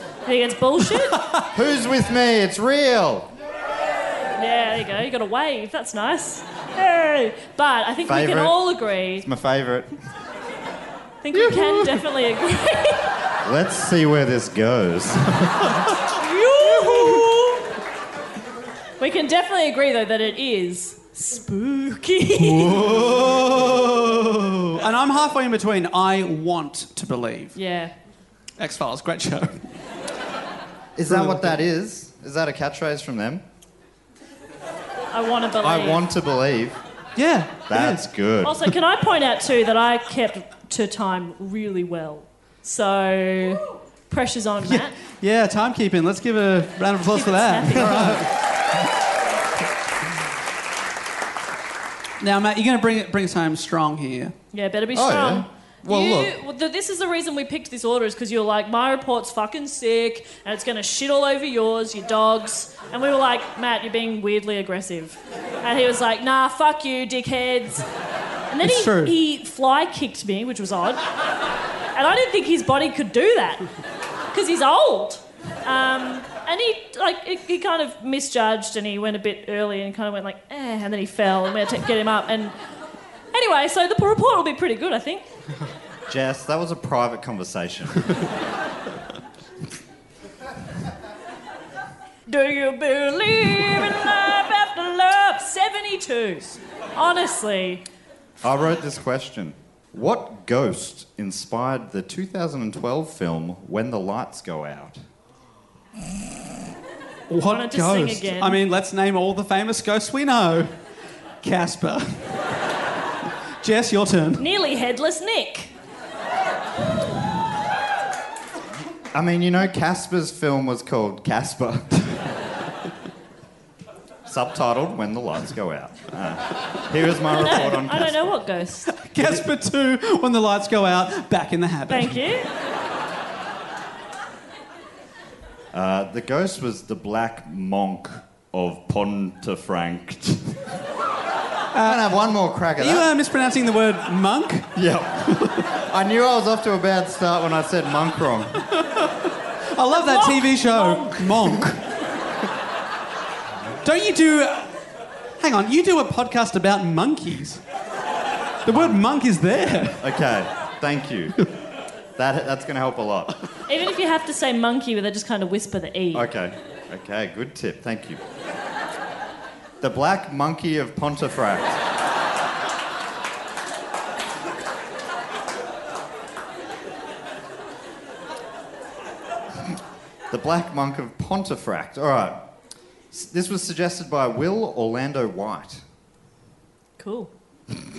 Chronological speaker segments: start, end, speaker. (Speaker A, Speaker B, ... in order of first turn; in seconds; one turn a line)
Speaker A: 0.2-1.3
Speaker B: 1.5-3.3
Speaker A: 4.3-9.2
Speaker B: 8.0-8.6
Speaker B: 9.1-9.9
Speaker A: 11.2-13.1
Speaker C: 11.3-11.8
Speaker B: 13.4-15.7
Speaker A: 16.1-17.5
Speaker C: 17.0-17.3
Speaker A: 19.0-22.9
Speaker C: 22.4-27.6
Speaker A: 27.5-27.9
Speaker C: 28.6-29.7
Speaker B: 30.9-33.4
Speaker C: 31.1-31.5
Speaker A: 35.1-36.0
Speaker B: 35.6-36.8
Speaker C: 37.1-38.0
Speaker B: 37.7-38.6
Speaker A: 38.4-44.9
Speaker C: 44.6-48.3
Speaker A: 47.1-48.2
Speaker C: 52.2-54.3
Speaker A: 54.5-67.9
Speaker B: 54.9-56.4
Speaker A: 68.5-71.0
Speaker C: 68.6-69.1
Speaker A: 71.9-73.7
Speaker A: 74.3-82.5
Speaker A: 83.3-85.2
Speaker B: 86.1-88.2
Speaker A: 92.3-97.8
Speaker B: 98.4-105.0
Speaker C: 107.3-110.7
Speaker A: 107.5-108.6
Speaker C: 111.4-112.2
Speaker C: 113.6-114.4
Speaker A: 114.4-115.7
Speaker B: 119.1-122.3
Speaker B: 124.2-128.4
Speaker A: 127.3-129.0
Speaker C: 129.0-132.2
Speaker A: 131.9-132.5
Speaker B: 135.7-140.6
Speaker C: 141.7-144.7
Speaker B: 141.8-143.1
Speaker B: 144.8-148.7
Speaker C: 148.8-149.1
Speaker C: 149.7-151.8
Speaker A: 149.9-151.3
Speaker C: 153.8-154.7
Speaker C: 155.4-157.6
Speaker C: 158.6-160.0
Speaker B: 160.0-161.4
Speaker B: 162.2-163.3
Speaker A: 163.7-166.3
Speaker B: 166.1-168.2
Speaker B: 169.8-171.8
Speaker B: 180.3-182.5
Speaker B: 183.1-185.8
Speaker A: 187.0-187.3